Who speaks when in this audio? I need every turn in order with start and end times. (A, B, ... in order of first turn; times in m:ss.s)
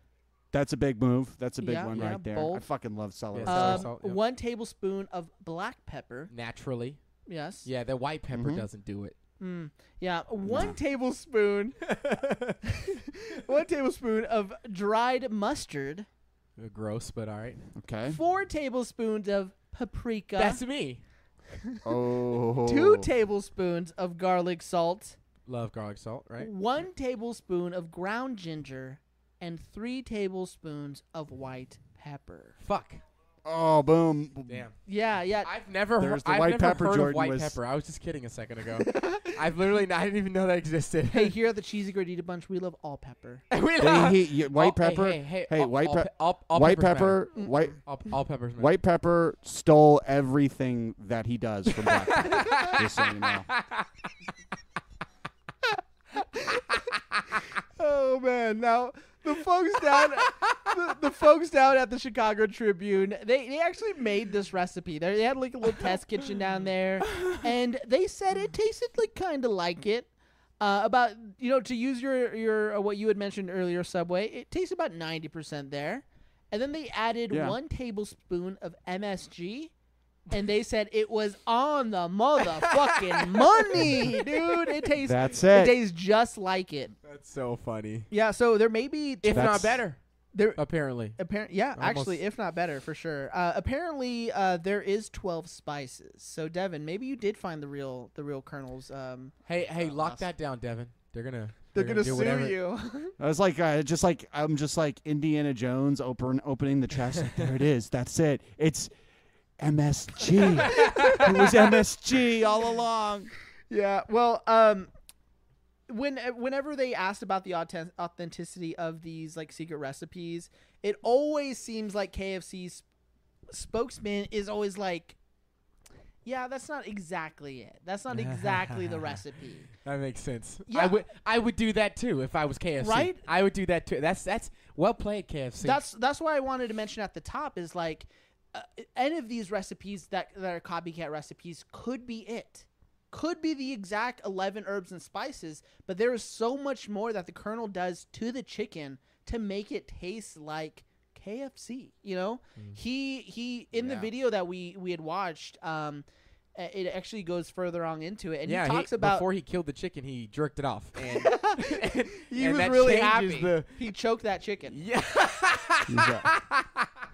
0:00.5-0:03.9 A
0:01.6-0:02.6 B
0:03.3-0:04.2 C
0:03.4-0:06.3 B
0:06.3-0:07.0 C
0:07.3-0:07.7 B
0:07.6-0:09.2 C
0:08.3-0:08.6 A
0:09.4-0:12.0 B
0:10.4-0:10.8 A
0:11.9-0:12.6 C
0:12.8-0:16.1 B
0:16.6-0:17.7 C
0:17.8-0:18.2 A
0:18.1-0:20.6 B
0:20.4-0:21.0 C
0:21.8-0:23.1 A
0:22.6-0:25.2 B
0:25.5-0:26.5 C
0:26.4-0:32.6 B
0:32.6-0:33.0 C
0:33.4-0:34.7 A
0:34.5-0:34.8 C
0:34.9-0:35.5 B
0:35.4-0:41.4 C
0:36.0-0:37.6 A
0:38.9-0:39.2 B
0:41.1-0:43.4 B
0:43.5-0:48.7 C
0:43.8-0:47.8 A
0:48.6-0:53.5 A
0:51.9-0:54.1 C
0:56.2-0:56.8 B
0:57.8-1:10.1 B
1:07.1-1:07.3 C
1:10.6-1:19.7 B
1:17.3-1:17.6 A
1:20.3-1:26.9 B
1:23.0-1:24.2 C
1:25.0-1:25.7 A
1:27.0-1:28.1 C
1:28.1-1:29.6 B
1:29.2-1:30.0 C
1:29.3-1:29.8 A
1:30.3-1:40.3 B
1:30.6-1:31.2 C
1:31.7-1:32.2 C
1:39.5-1:42.6 C
1:41.7-1:43.2 B
1:43.2-1:48.9 A
1:49.6-1:53.3 A
1:50.9-1:51.2 C
1:50.9-1:51.2 B
1:53.7-1:54.9 B
1:55.9-2:02.8 B
2:03.5-2:05.2 B
2:06.2-2:09.7 B
2:08.1-2:09.2 C
2:09.7-2:15.8 C
2:10.7-2:11.0 B
2:12.8-2:13.2 B
2:15.6-2:39.3 B
2:33.7-2:34.1 A
2:38.5-2:43.9 C
2:41.1-2:44.8 B
2:44.7-2:46.9 C
2:45.9-2:46.3 A